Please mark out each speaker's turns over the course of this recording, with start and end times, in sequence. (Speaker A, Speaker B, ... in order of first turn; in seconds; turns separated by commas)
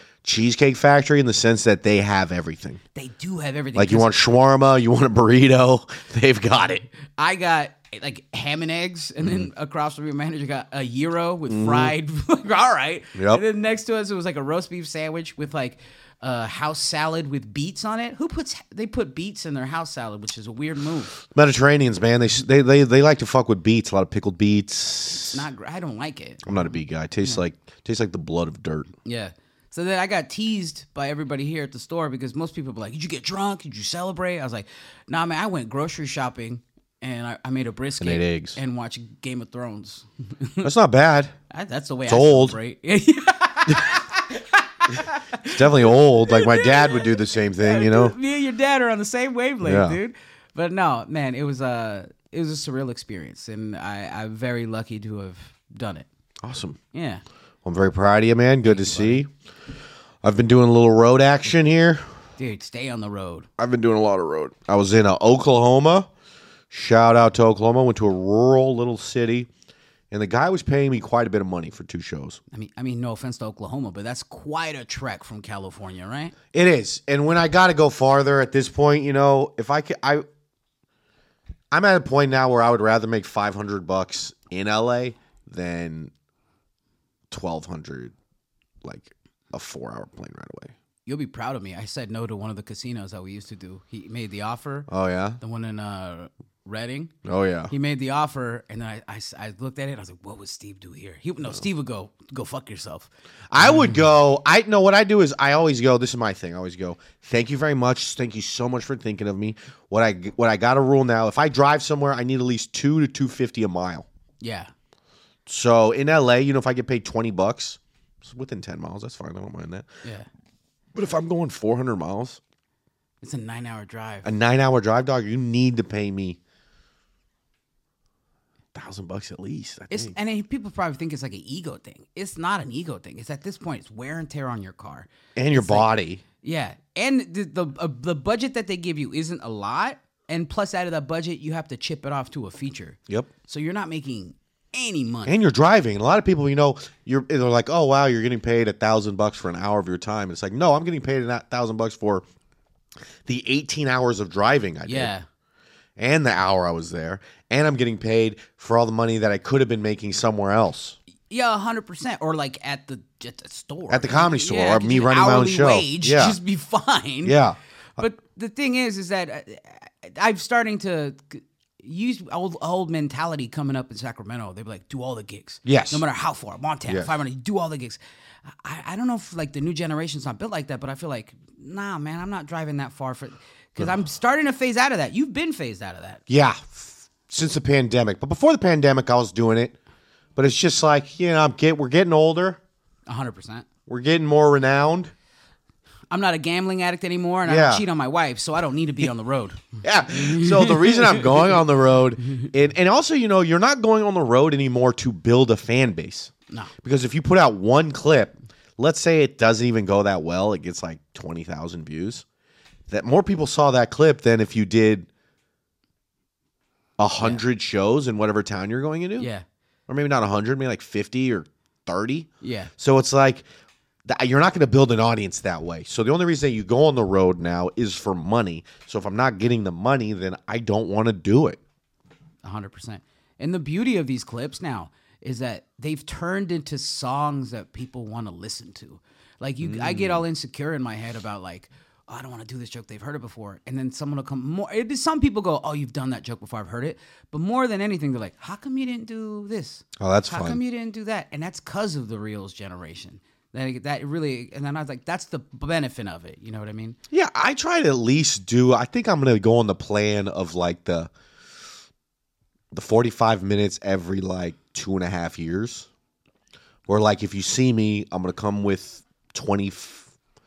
Speaker A: 0.2-2.8, Speaker B: 3.0-4.1, Speaker A: 3.8-6.9, Speaker B: 7.1-21.1, Speaker A: 11.5-11.9, Speaker A: 13.2-13.4, Speaker A: 21.3-25.5, Speaker B: 25.3-27.4, Speaker A: 26.4-28.9, Speaker B: 29.1-40.7, Speaker A: 38.0-38.6, Speaker A: 40.6-41.4, Speaker B: 41.5-56.1, Speaker A: 42.1-42.6, Speaker A: 45.5-48.2, Speaker A: 49.6-50.0, Speaker A: 56.4-56.8, Speaker B: 56.9-57.2, Speaker A: 57.6-59.3, Speaker B: 58.6-59.3, Speaker A: 60.2-62.0, Speaker B: 62.4-63.5, Speaker A: 63.6-66.1, Speaker A: 66.7-69.5, Speaker A: 70.1-72.4, Speaker B: 72.5-76.3, Speaker A: 76.5-80.3, Speaker A: 81.7-86.1, Speaker A: 87.3-88.1, Speaker A: 88.8-90.7, Speaker B: 91.1-94.9, Speaker A: 94.9-95.4, Speaker B: 95.4-97.1, Speaker A: 97.2-97.7, Speaker B: 97.7-103.1, Speaker A: 103.5-114.1, Speaker B: 103.6-103.9, Speaker B: 114.4-114.7, Speaker A: 115.5-119.9, Speaker A: 120.9-122.4, Speaker B: 123.2-124.3, Speaker A: 124.2-126.4, Speaker A: 128.7-130.2, Speaker B: 129.9-145.4, Speaker A: 135.4-136.2, Speaker A: 145.3-152.3, Speaker A: 153.2-155.1, Speaker B: 154.9-155.3, Speaker A: 156.0-161.0, Speaker B: 161.3-167.4, Speaker A: 163.9-166.4, Speaker A: 167.2-168.0, Speaker B: 168.0-186.2, Speaker A: 175.7-176.0, Speaker A: 176.9-177.1, Speaker A: 186.3-189.8, Speaker A: 190.4-192.6, Speaker B: 193.1-193.7, Speaker A: 193.9-195.1, Speaker B: 196.1-201.5, Speaker A: 197.4-197.8, Speaker A: 199.8-206.3, Speaker A: 206.8-212.2, Speaker A: 212.9-215.1, Speaker A: 217.0-219.3, Speaker B: 219.2-219.4, Speaker A: 219.9-223.5, Speaker B: 222.4-222.7, Speaker A: 224.1-231.6, Speaker B: 232.4-257.0, Speaker A: 239.6-240.2, Speaker A: 250.0-250.6, Speaker A: 257.1-261.1, Speaker A: 262.7-265.9, Speaker A: 266.9-270.1